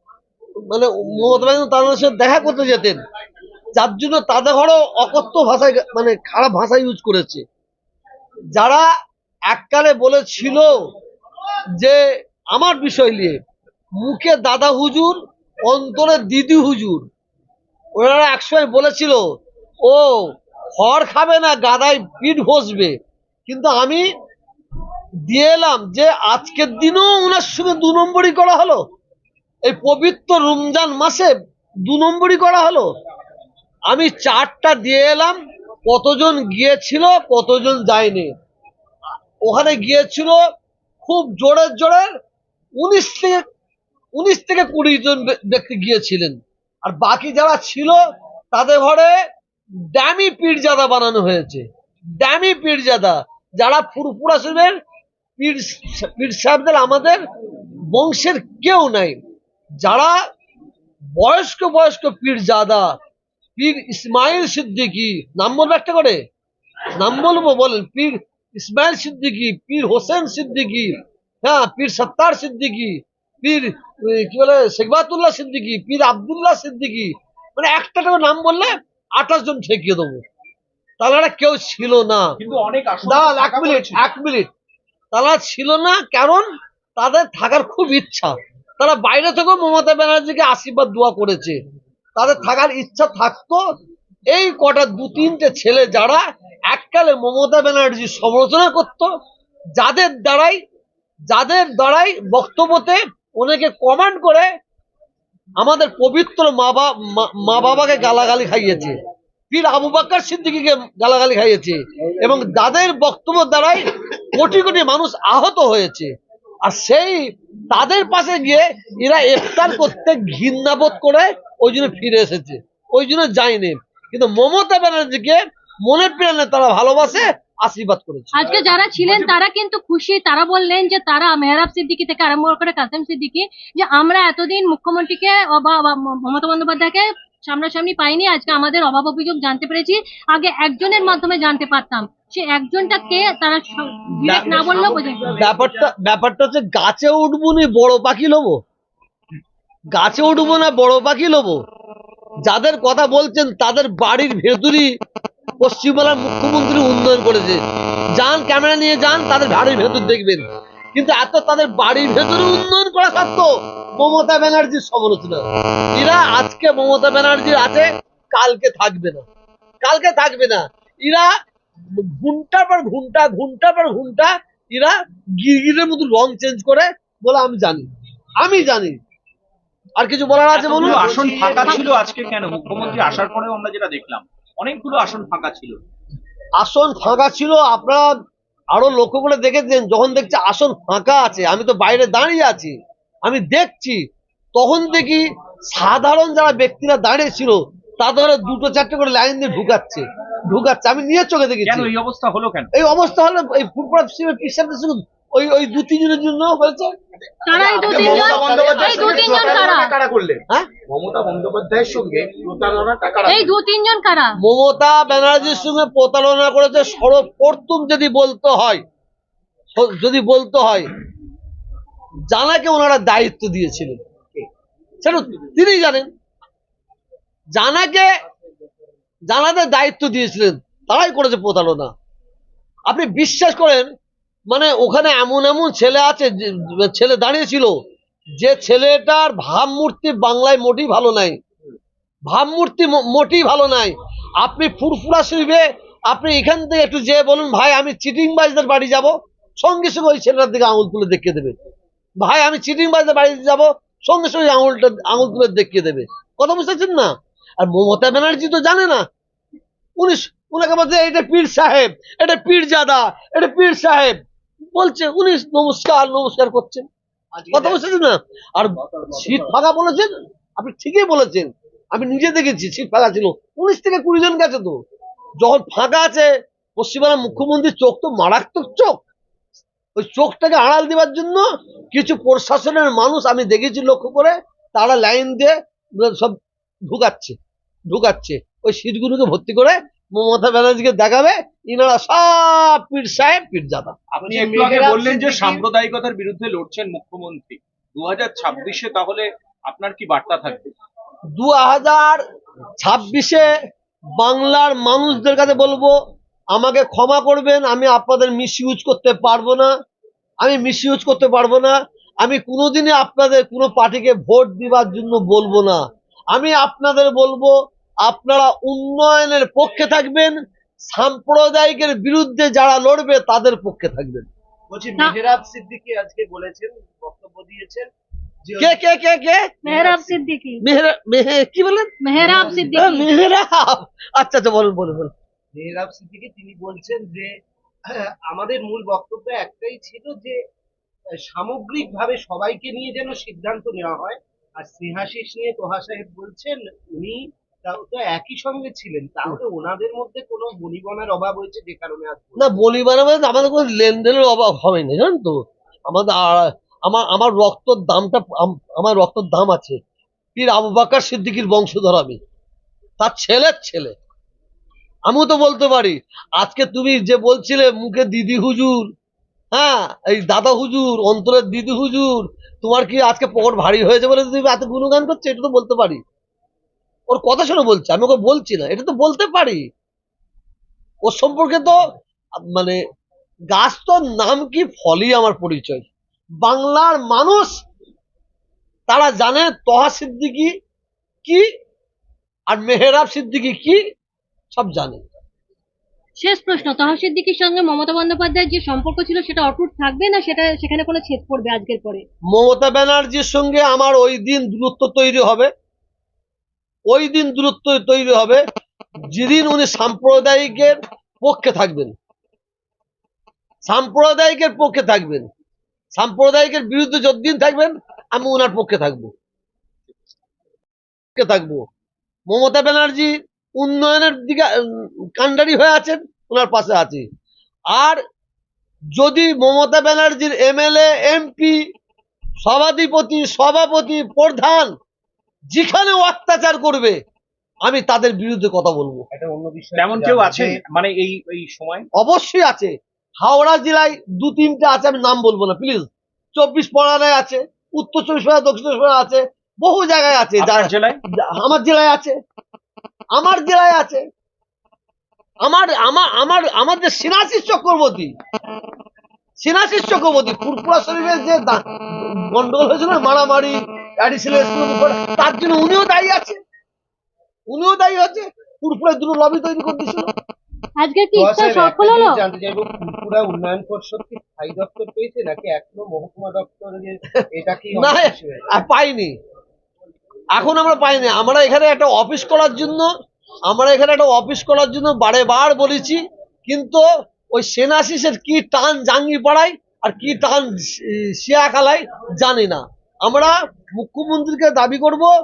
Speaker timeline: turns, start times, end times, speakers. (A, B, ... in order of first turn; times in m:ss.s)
0:00.7-0:03.0 A
0:03.8-0:07.4 A
0:08.6-0:08.8 A
0:09.5-0:10.7 A
0:12.5-0:13.4 A
0:14.0-0:17.1 A
0:18.0-0:19.2 A
0:19.8-0:20.1 A
0:20.8-0:22.9 A
0:23.5-0:24.0 A
0:25.3-0:28.8 A
0:29.6-0:31.3 A
0:31.8-0:32.9 A
0:33.9-0:35.4 A
0:35.9-0:38.3 A
0:39.4-0:40.4 A
0:41.0-0:42.1 A
0:42.8-0:43.4 A
0:44.2-0:48.0 A
0:48.5-0:49.1 A
0:49.9-0:51.6 A
0:52.2-0:54.8 A
0:55.4-0:57.2 A
0:57.9-0:59.2 A
0:59.8-1:00.1 A
1:01.2-1:02.8 A
1:03.6-1:06.2 A
1:07.0-1:10.9 A
1:11.4-1:20.2 A
1:21.0-1:22.3 A
1:22.4-1:24.0 B
1:23.0-1:24.5 A
1:25.1-1:26.4 A
1:27.0-1:31.6 A
1:32.2-1:33.6 A
1:34.3-1:39.1 A
1:39.8-1:40.6 A
1:41.3-1:44.5 A
1:45.6-1:49.0 A
1:49.5-1:56.1 A
1:56.6-2:08.5 A
2:08.3-2:25.4 C
2:24.2-2:28.6 A
2:29.9-2:31.6 A
2:32.4-2:34.9 A
2:35.6-2:37.6 A
2:38.2-2:45.4 A
2:45.9-2:49.2 A
2:49.8-2:51.3 A
2:52.0-2:57.8 A
2:58.4-2:59.0 A
3:00.0-3:01.7 A
3:00.5-3:05.8 B
3:01.1-3:01.7 D
3:06.6-3:08.1 A
3:08.7-3:12.7 A
3:13.2-3:14.0 A
3:14.6-3:15.2 A
3:15.7-3:21.9 A
3:21.7-3:22.7 B
3:22.7-3:26.9 A
3:27.4-3:30.0 C
3:27.7-3:33.5 B
3:28.2-3:29.6 D
3:33.2-3:34.3 C
3:34.4-3:38.8 A
3:39.8-3:40.8 A
3:42.3-3:44.0 A
3:45.0-3:46.1 A
3:47.6-3:48.1 A
3:49.3-3:51.9 A
3:52.9-3:53.9 A
3:54.5-3:57.7 A
3:58.4-4:01.4 A
4:02.3-4:11.5 A
4:12.2-4:19.0 A
4:20.0-4:24.2 A
4:24.7-4:26.8 A
4:27.3-4:27.8 D
4:27.5-4:34.7 A
4:29.0-4:29.4 D
4:35.4-4:39.0 A
4:40.0-4:46.4 A
4:46.9-4:47.4 A
4:47.9-4:53.9 A
4:54.1-5:00.7 B
4:54.2-4:55.7 D
5:01.4-5:02.2 A
5:02.8-5:03.5 A
5:04.2-5:05.9 A
5:06.5-5:09.7 A
5:10.4-5:15.8 A
5:16.3-5:17.5 A
5:18.0-5:20.3 A
5:20.9-5:24.3 A
5:24.7-5:27.9 D
5:28.4-5:28.8 D
5:28.6-5:29.4 A
5:29.6-5:30.6 C
5:29.7-5:30.2 D
5:30.6-5:31.9 A
5:32.0-5:33.1 C
5:32.2-5:32.9 D
5:32.6-5:35.1 A
5:35.5-5:37.3 D
5:37.9-5:40.4 D
5:41.2-5:52.6 D
5:52.4-5:59.8 A
6:00.4-6:02.2 A
6:03.0-6:03.9 A
6:05.1-6:08.9 A
6:09.5-6:16.0 A
6:17.1-6:19.6 A
6:21.0-6:21.8 A
6:22.5-6:22.8 A
6:23.5-6:25.9 A
6:26.4-6:27.5 A
6:28.9-6:30.5 A
6:32.5-6:33.8 A
6:34.5-6:35.2 A
6:36.2-6:42.0 C
6:42.3-6:45.5 A
6:46.9-6:48.4 A
6:49.1-6:51.9 A
6:53.7-6:55.3 A
6:55.9-6:59.1 A
7:01.2-7:01.6 A
7:02.3-7:07.0 A
7:07.7-7:08.0 A
7:09.0-7:11.6 A
7:12.4-7:14.7 A
7:15.5-7:17.0 A
7:17.6-7:19.0 A
7:19.1-7:20.6 D
7:19.8-7:21.9 B
7:22.0-7:22.7 A
7:23.2-7:30.7 A
7:30.4-7:31.0 B
7:31.4-7:32.1 A
7:33.2-7:34.0 A
7:35.4-7:38.1 A
7:39.4-7:41.6 A
7:42.3-7:46.4 A
7:47.5-7:50.1 A
7:50.8-7:52.2 C
7:51.1-7:58.4 D
7:57.8-7:59.1 A
8:00.3-8:02.9 A
8:03.5-8:06.8 A
8:07.3-8:15.1 A